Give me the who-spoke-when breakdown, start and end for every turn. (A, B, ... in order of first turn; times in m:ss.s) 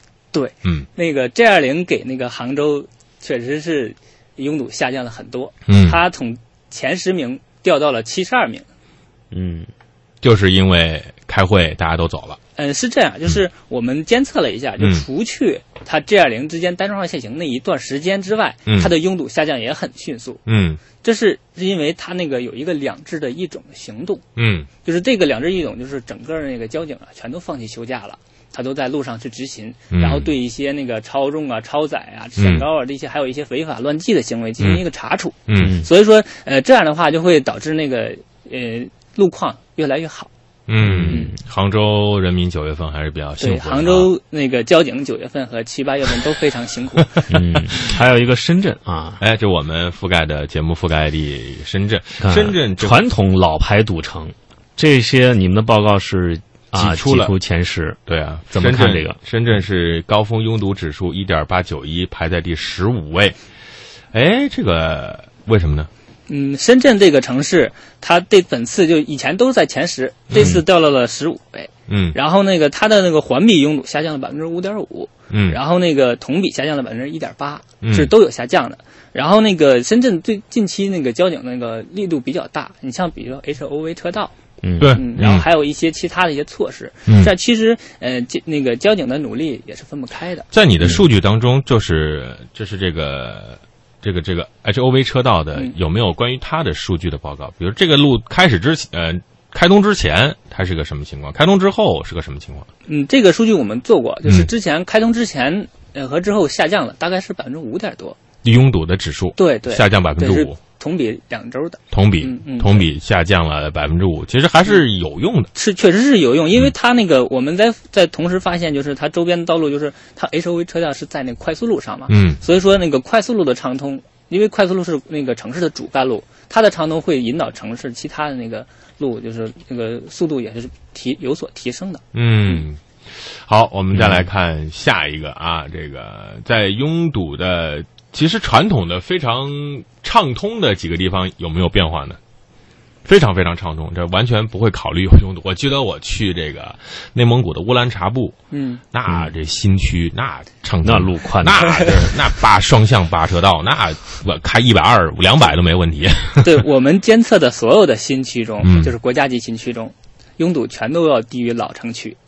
0:00.3-0:08.7 A
0:05.7-0:06.0 B
0:09.3-0:09.7 C
0:10.2-0:12.4 B
0:12.6-0:20.4 A
0:14.8-0:15.0 B
0:18.7-0:18.9 B
0:20.5-0:20.8 B
0:21.0-0:24.2 A
0:24.4-0:24.7 B
0:24.8-0:40.3 A
0:29.9-0:30.3 B
0:32.4-0:32.6 B
0:35.5-0:35.8 B
0:35.6-0:35.9 C
0:40.7-0:44.1 B
0:40.8-0:41.4 C
0:43.4-0:47.2 A
0:47.1-0:47.9 B
0:47.3-0:49.2 C
0:49.2-0:53.0 B
0:52.2-0:59.2 C
0:56.8-0:57.4 B
0:58.1-1:03.4 B
1:04.1-1:05.9 B
1:06.3-1:24.3 A
1:10.3-1:10.6 B
1:11.9-1:12.2 B
1:15.3-1:15.6 B
1:17.8-1:18.1 B
1:24.6-1:25.0 C
1:24.8-1:25.5 B
1:24.9-1:30.5 A
1:27.1-1:27.3 B
1:30.5-1:42.7 B
1:42.9-1:48.2 A
1:48.4-1:50.6 B
1:49.4-1:52.9 A
1:51.9-1:55.5 B
1:55.6-2:12.6 A
2:02.1-2:02.4 B
2:12.1-2:12.8 B
2:13.4-2:22.2 B
2:13.9-2:14.3 C
2:23.1-2:28.4 B
2:28.5-2:28.8 A
2:28.9-2:36.6 B
2:29.1-2:29.3 C
2:30.8-2:32.2 C
2:36.4-2:42.2 A
2:38.6-2:38.9 B